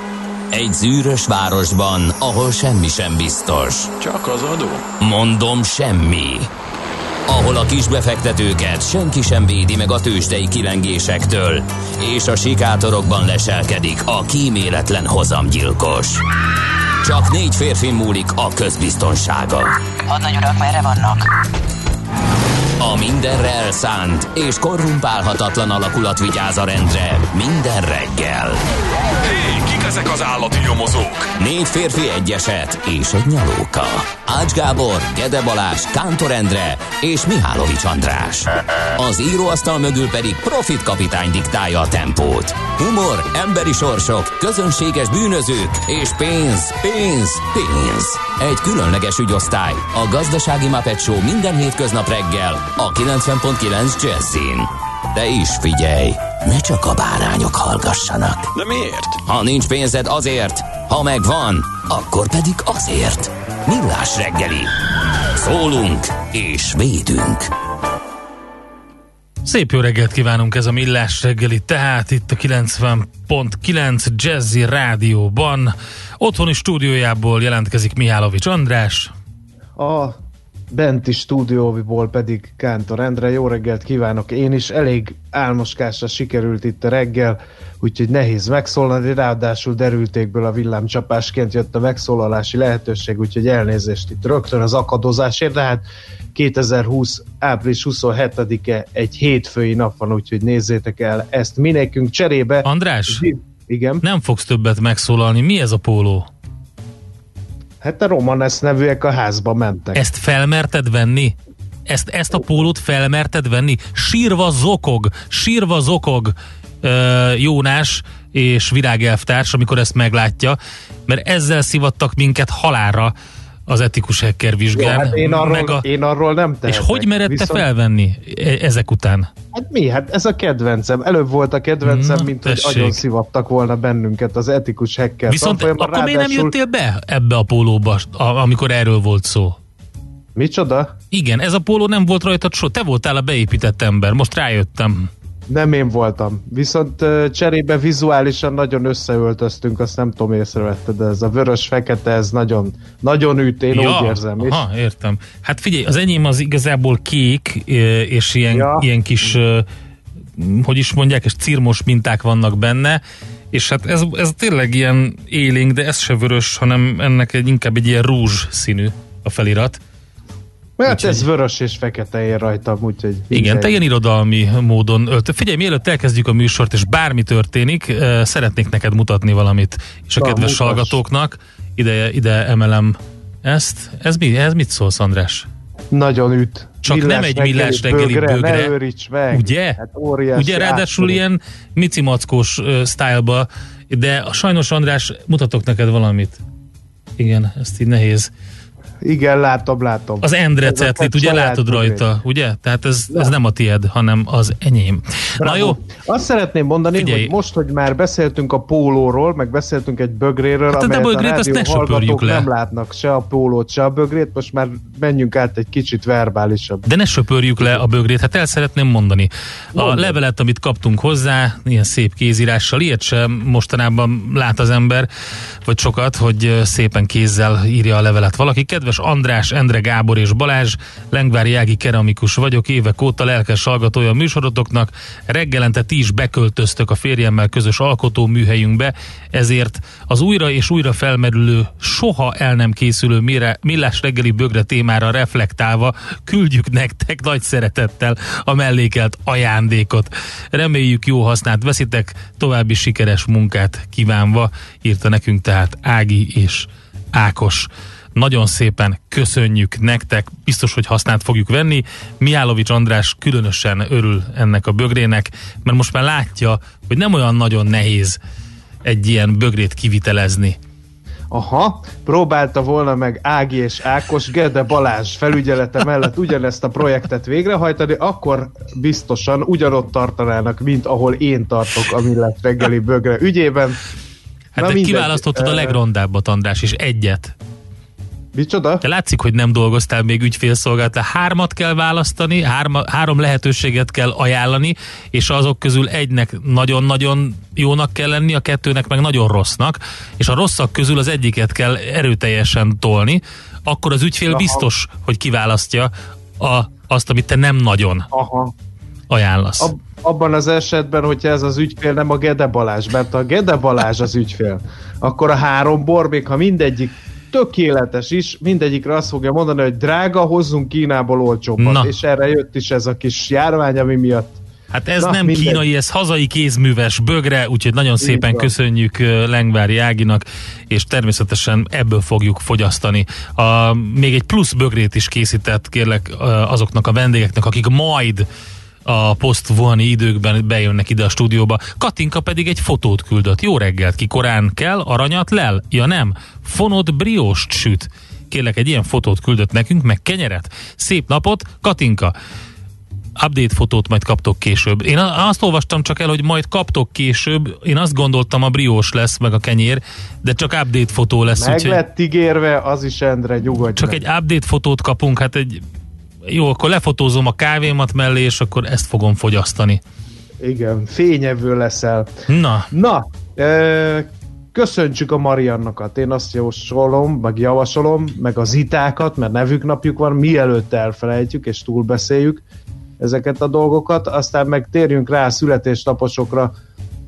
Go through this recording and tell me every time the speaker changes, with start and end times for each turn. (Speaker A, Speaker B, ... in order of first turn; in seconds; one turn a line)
Speaker A: 0.5-3.9
Speaker B: 4.0-4.8
Speaker A: 5.0-6.5
Speaker A: 7.3-16.2
Speaker A: 17.0-21.3
Speaker A: 22.8-28.6
Speaker B: 29.2-31.3
Speaker A: 31.4-58.5
Speaker B: 58.5-59.2
Speaker A: 59.3-64.8
Speaker A: 65.3-67.5
Speaker C: 69.4-79.1
Speaker D: 79.8-80.2
Speaker D: 80.7-104.0
Speaker C: 102.6-103.2
Speaker C: 104.0-106.3
Speaker D: 107.8-110.0
Speaker C: 110.0-111.4
Speaker C: 111.9-123.1
Speaker C: 123.7-125.9
Speaker D: 124.7-127.7
Speaker C: 126.7-129.3
Speaker D: 129.5-136.5
Speaker C: 131.8-133.0
Speaker C: 135.3-139.6
Speaker D: 140.3-140.9
Speaker C: 141.1-145.1
Speaker D: 145.5-154.7
Speaker C: 153.7-159.7
Speaker D: 158.5-158.9
Speaker C: 160.4-163.0
Speaker C: 163.5-169.8
Speaker D: 170.8-173.7
Speaker C: 170.9-171.2
Speaker C: 173.3-185.5
Speaker D: 180.2-181.0
Speaker D: 185.9-191.2
Speaker C: 186.8-188.7
Speaker C: 189.3-189.8
Speaker C: 190.3-196.4
Speaker C: 197.2-198.3
Speaker D: 199.0-202.1
Speaker C: 200.2-205.8
Speaker D: 205.4-216.9
Speaker C: 206.9-207.3
Speaker C: 210.7-212.5
Speaker C: 216.9-225.1
Speaker D: 219.8-220.2
Speaker C: 225.7-268.2
Speaker C: 268.9-270.6
Speaker D: 271.3-283.8
Speaker C: 284.6-287.4
Speaker D: 284.6-285.8
Speaker D: 288.3-288.8
Speaker C: 288.8-308.1
Speaker D: 304.3-304.7
Speaker D: 308.1-308.5
Speaker C: 309.1-309.7
Speaker D: 309.6-324.4
Speaker C: 321.6-322.0
Speaker C: 324.7-338.3
Speaker D: 325.0-325.6
Speaker D: 328.0-328.5
Speaker C: 338.9-352.1
Speaker C: 353.2-361.8
Speaker D: 361.4-364.0
Speaker C: 363.8-365.6
Speaker C: 366.3-369.8
Speaker D: 370.4-372.1
Speaker C: 372.3-372.7
Speaker D: 372.7-382.4
Speaker D: 383.0-386.5